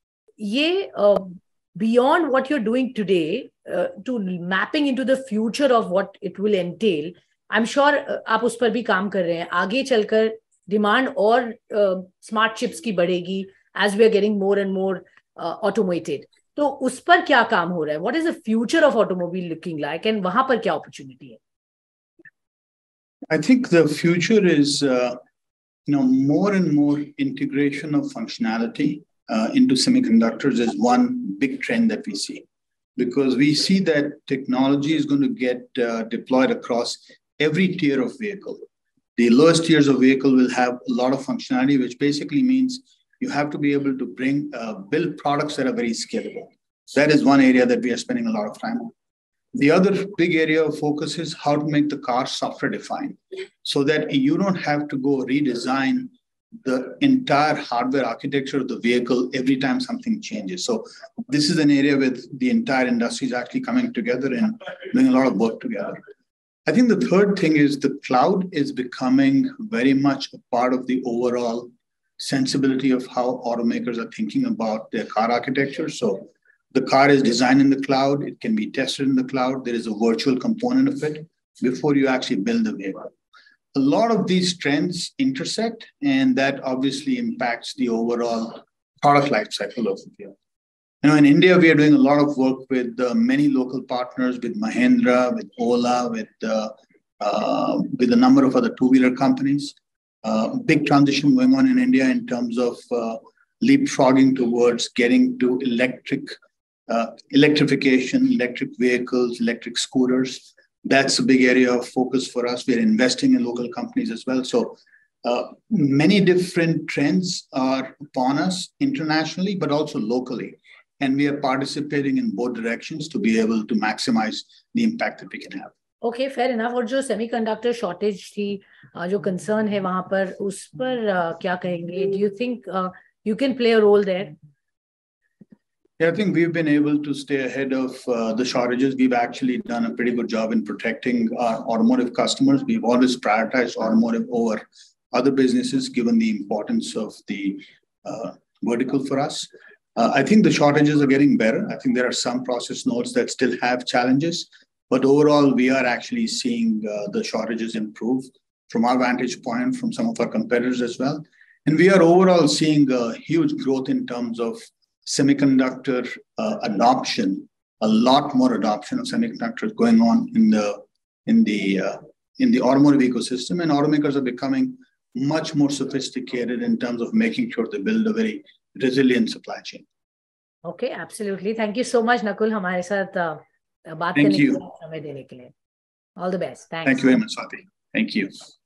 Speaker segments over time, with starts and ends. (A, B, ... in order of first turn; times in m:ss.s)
0:00.4-0:21.4 A
0:23.3-0:25.2 B
0:25.9-0:32.4 B
0:33.0-0:38.6 B
0:39.2-0:48.9 B
0:49.5-0:56.1 B
0:56.6-1:06.0 B
1:06.6-1:23.1 B
1:23.7-1:30.3 B
1:31.0-1:46.4 B
1:46.9-2:05.7 B
2:06.0-2:14.3 A
2:16.0-2:59.8 B
3:00.6-3:05.5 A
3:04.1-3:04.6 B
3:06.2-3:07.0 A
3:06.8-3:08.4 B